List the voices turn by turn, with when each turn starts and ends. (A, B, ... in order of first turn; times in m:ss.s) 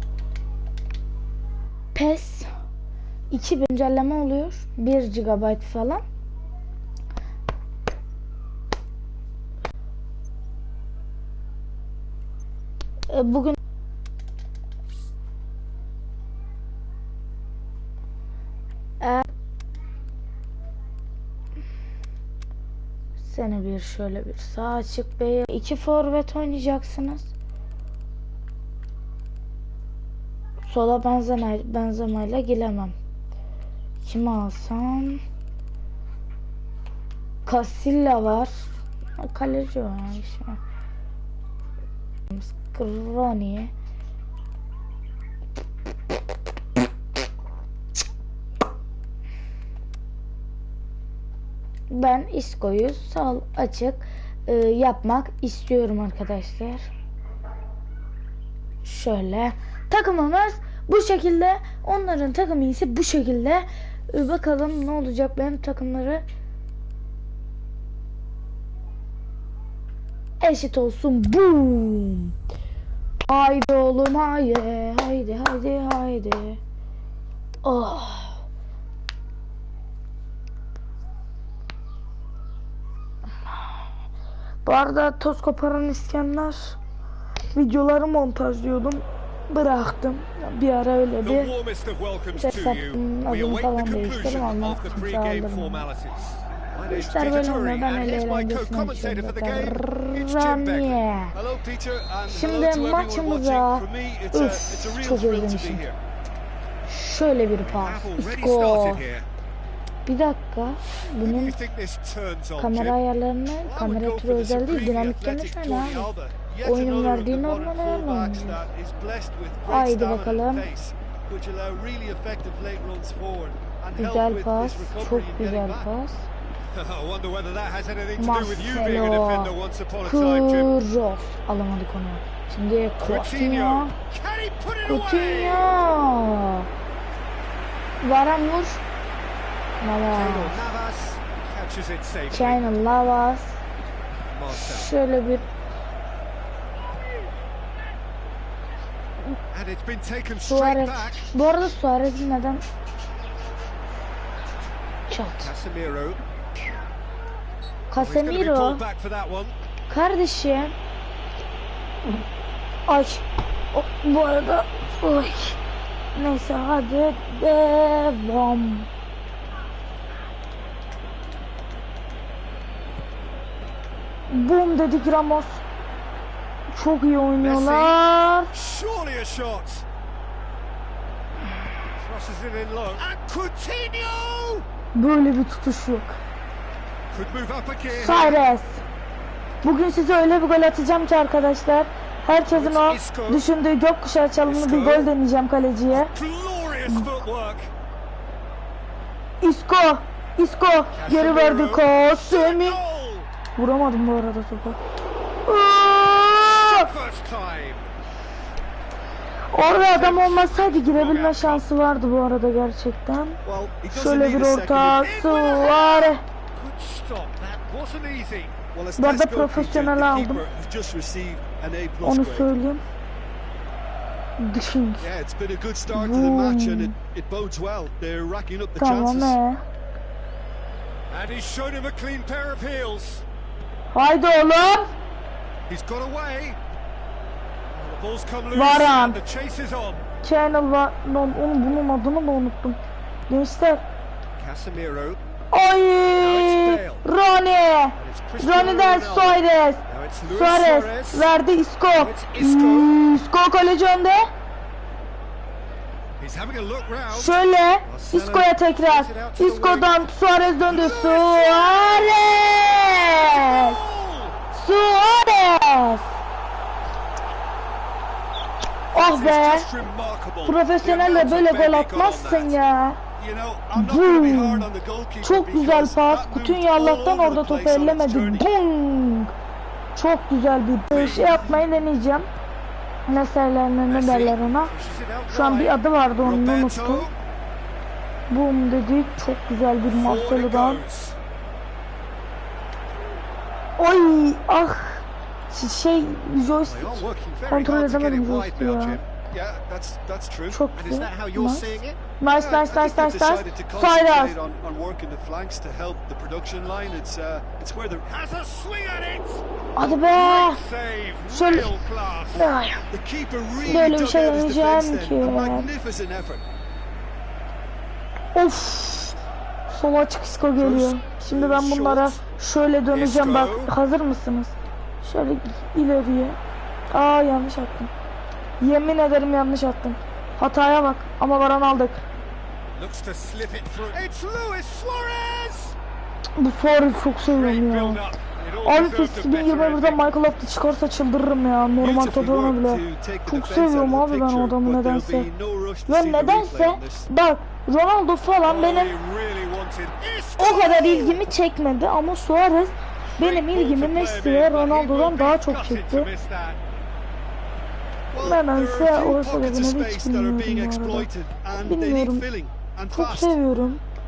0:01.9-0:02.5 A
0:03.3-0:06.0 A
0:13.1-0:13.6 A
0:19.0-0:19.2 A
0:23.2-0:27.3 A
0:30.6-0:32.9 A
0:34.0-0:35.2 A
0:37.4-0:38.5 A
0:39.2-0:40.6 A
0:42.3-0:43.7 A
0:51.9-0:56.8 A
0:58.8-1:06.2 A
1:10.4-1:12.3 A
1:13.3-1:16.6 A
1:17.6-1:18.4 A
1:24.6-1:26.8 A
1:27.5-1:31.5 A
1:31.2-1:41.0 B
1:32.3-1:35.8 A
1:36.9-1:41.4 A
1:41.3-1:46.0 C
1:42.3-1:45.9 A
1:46.9-1:49.1 A
1:47.6-1:49.3 B
1:50.0-1:51.6 A
1:51.1-1:53.0 B
1:52.6-1:56.1 A
1:53.6-2:05.9 C
1:56.6-1:58.7 A
1:59.7-2:00.7 A
2:04.0-2:06.3 A
2:06.7-2:10.7 B
2:08.2-2:09.5 A
2:10.0-2:13.9 A
2:13.0-2:15.7 B
2:14.8-2:16.7 A
2:18.0-2:18.8 A
2:19.8-2:20.6 A
2:20.1-2:22.7 B
2:22.3-2:23.6 A
2:24.3-2:24.9 B
2:24.5-2:25.4 A
2:29.5-2:31.3 B
2:30.5-2:32.6 A
2:35.1-2:35.5 A
2:35.4-2:36.2 B
2:37.9-2:38.8 A
2:38.0-2:39.5 B
2:39.9-2:40.7 A
2:42.9-2:45.6 A
2:46.1-2:48.9 A
2:54.3-2:55.6 A
2:56.7-2:58.5 A
2:57.4-2:58.0 B
2:58.5-2:59.8 B
3:01.9-3:04.6 B
3:04.9-3:06.2 A
3:07.1-3:08.4 B
3:07.9-3:08.8 A
3:09.6-3:16.1 A
3:12.5-3:13.5 B
3:14.4-3:15.1 B
3:15.9-3:17.7 B
3:19.4-3:22.8 A
3:20.9-3:23.3 B
3:23.6-3:24.8 A
3:25.5-3:26.9 A
3:26.4-3:27.9 B
3:29.5-3:33.4 A
3:29.6-3:31.6 B
3:33.4-3:35.1 C
3:33.9-3:36.2 A
3:35.0-3:38.5 B
3:38.7-3:42.5 C
3:39.0-3:40.4 A
3:42.0-3:42.8 A
3:44.4-3:45.1 A
3:45.0-3:49.4 C
3:45.9-3:46.9 A
3:48.8-3:49.6 A
3:51.1-3:53.2 B
3:53.9-3:55.0 A
3:55.7-3:56.6 B
3:57.7-4:00.0 B
3:58.5-3:59.2 A
4:00.2-4:02.8 A
4:03.3-4:03.8 A
4:04.4-4:05.2 B
4:05.5-4:14.3 A
4:06.1-4:07.0 B
4:08.0-4:11.3 B
4:11.9-4:12.9 B
4:16.2-4:19.9 B
4:17.1-4:23.8 A
4:20.6-4:24.4 B
4:24.5-4:26.1 A
4:28.9-4:29.7 A
4:29.0-4:29.9 B
4:29.2-4:30.6 C
4:30.4-4:33.0 A
4:30.8-4:32.6 B
4:33.2-4:38.5 C
4:33.7-4:34.7 A
4:35.2-4:39.3 A
4:39.9-4:42.3 A
4:40.9-4:41.5 B
4:43.1-4:44.7 A
4:43.9-4:47.2 B
4:45.3-4:47.1 A
4:48.3-4:50.8 A
4:49.8-4:51.2 B
4:53.8-4:59.0 A
4:56.4-4:59.1 B
4:59.2-5:00.6 C
5:00.5-5:04.3 A
5:00.7-5:02.0 B
5:02.3-5:08.0 C
5:08.0-5:12.5 B
5:09.8-5:10.6 A
5:11.2-5:11.7 A
5:12.3-5:12.8 A
5:12.9-5:16.4 C
5:13.6-5:15.7 A
5:18.3-5:19.2 A
5:19.7-5:26.4 A
5:20.6-5:22.2 C
5:22.9-5:23.7 B
5:26.9-5:27.9 A
5:28.6-5:32.0 A
5:32.7-5:35.8 B
5:36.4-5:38.0 A
5:37.0-5:40.1 B
5:38.6-5:45.3 A
5:41.8-5:47.1 C
5:45.9-5:48.9 A
5:48.4-5:51.2 B
5:50.4-5:56.1 A
5:53.2-5:56.6 B
5:58.1-6:03.4 C
5:58.2-6:01.1 A
6:01.6-6:02.2 A
6:02.9-6:03.8 A